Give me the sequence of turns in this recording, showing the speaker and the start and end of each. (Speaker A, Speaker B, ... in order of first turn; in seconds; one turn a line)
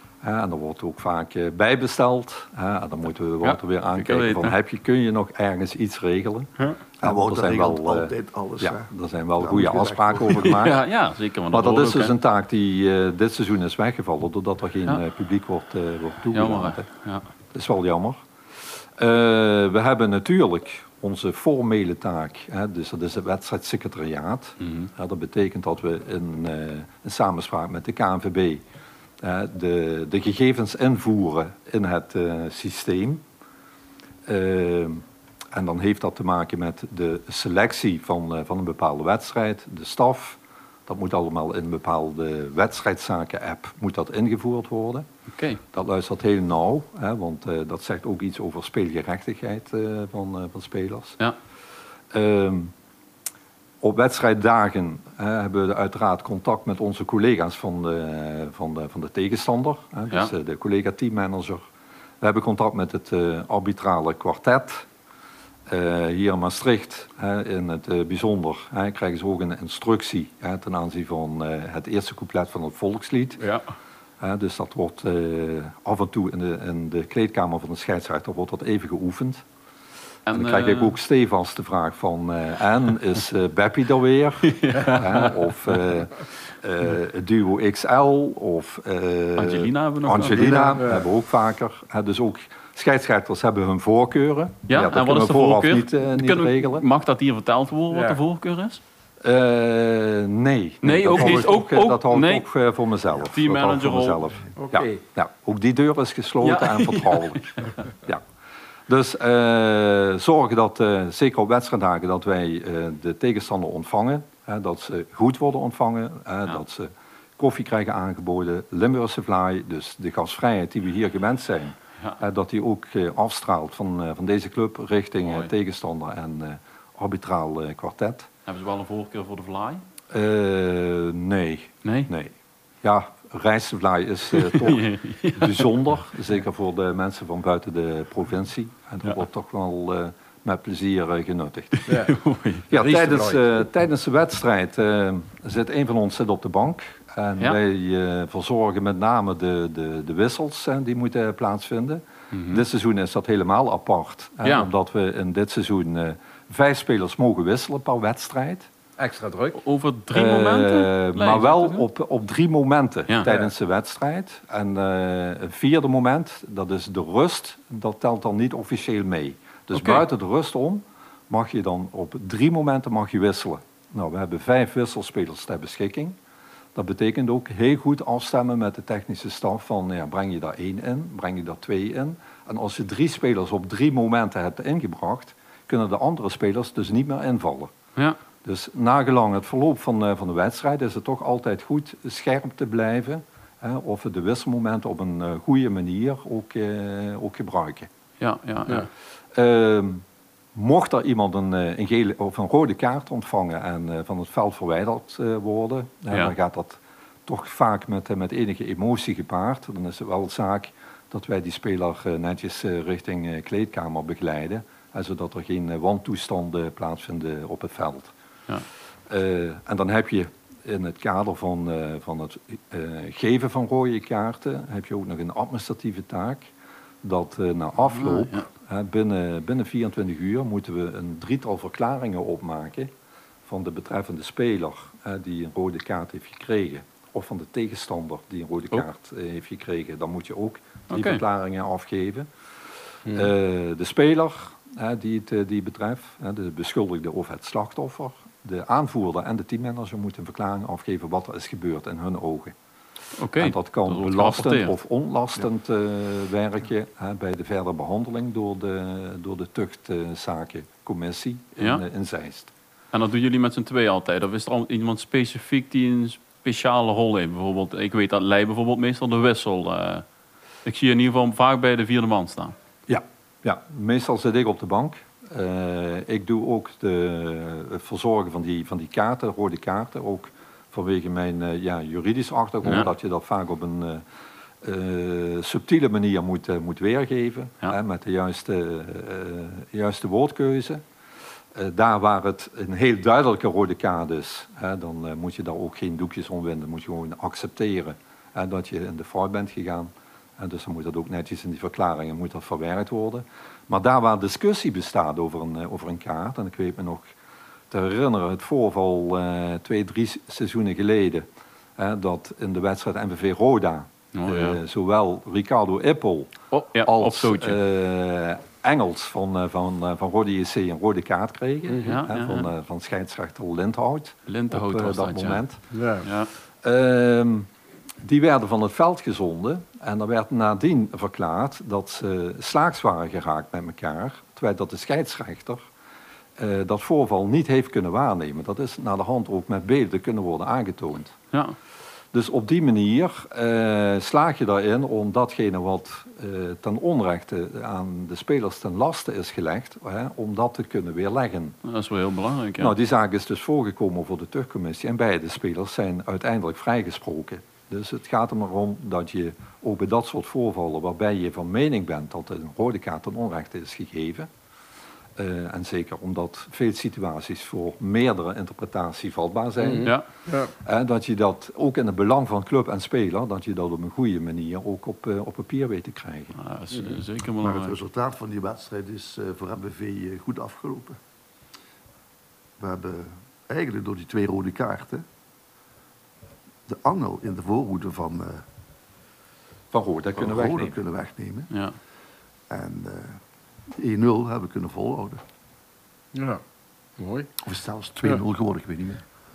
Speaker A: 0.2-10.8
Speaker B: 3.4-4.6
Speaker C: 7.0-10.6
Speaker B: 10.2-12.1
Speaker A: 11.5-16.9
Speaker B: 16.3-17.3
Speaker A: 17.5-28.6
Speaker B: 24.6-24.9
Speaker A: 29.2-33.2
Speaker A: 34.3-45.1
Speaker B: 45.4-45.6
Speaker A: 45.7-51.2
Speaker A: 52.1-52.7
Speaker A: 53.8-61.6
Speaker A: 62.2-64.9
Speaker A: 65.7-73.4
Speaker A: 74.2-79.4
Speaker B: 80.3-80.9
Speaker A: 80.3-96.9
Speaker B: 84.5-85.4
Speaker B: 89.4-90.6
Speaker C: 90.3-91.0
Speaker D: 90.8-91.0
Speaker B: 94.7-98.8
Speaker D: 97.9-98.2
Speaker A: 99.2-108.2
Speaker B: 100.8-102.5
Speaker B: 103.2-104.4
Speaker D: 104.6-105.0
Speaker B: 106.4-107.8
Speaker A: 108.9-128.3
Speaker B: 125.2-125.5
Speaker B: 128.5-129.8
Speaker A: 130.1-141.8
Speaker B: 131.8-132.1
Speaker B: 134.3-135.8
Speaker B: 141.8-142.7
Speaker D: 141.9-142.1
Speaker A: 142.7-158.7
Speaker D: 142.7-143.6
Speaker B: 152.3-152.6
Speaker B: 154.4-154.7
Speaker D: 159.0-159.6
Speaker B: 159.6-161.8
Speaker A: 160.1-176.2
Speaker B: 163.1-163.3
Speaker B: 169.7-170.0
Speaker A: 176.8-187.7
Speaker A: 188.4-197.9
Speaker B: 198.2-198.9
Speaker A: 199.3-218.1
Speaker A: 219.1-232.9
Speaker B: 228.1-228.5
Speaker A: 233.5-242.3
Speaker B: 240.9-241.2
Speaker A: 243.1-252.6
Speaker B: 253.2-254.7
Speaker A: 253.4-262.5
Speaker B: 261.6-261.8
Speaker B: 262.9-270.1
Speaker B: 270.6-272.6
Speaker A: 272.9-284.0
Speaker A: 284.6-290.8
Speaker A: 291.5-307.1
Speaker A: 307.7-311.2
Speaker A: 311.8-325.6
Speaker B: 314.1-314.6
Speaker B: 316.5-317.6
Speaker D: 321.7-321.9
Speaker B: 321.8-322.5
Speaker B: 324.3-325.4
Speaker D: 325.7-326.1
Speaker B: 326.0-326.3
Speaker A: 326.6-327.5
Speaker A: 328.0-335.6
Speaker A: 336.4-341.2
Speaker A: 342.1-351.6
Speaker B: 351.6-352.8
Speaker A: 352.6-364.3
Speaker A: 365.2-369.9
Speaker D: 369.6-370.5
Speaker A: 370.6-376.4
Speaker B: 376.4-377.8
Speaker D: 376.7-377.0
Speaker C: 377.4-381.0
Speaker C: 382.6-385.1
Speaker C: 386.7-388.4
Speaker A: 389.7-390.8
Speaker C: 390.2-391.5
Speaker C: 392.5-393.2
Speaker C: 393.7-395.2
Speaker D: 396.1-396.4
Speaker D: 397.0-397.3
Speaker C: 397.4-399.0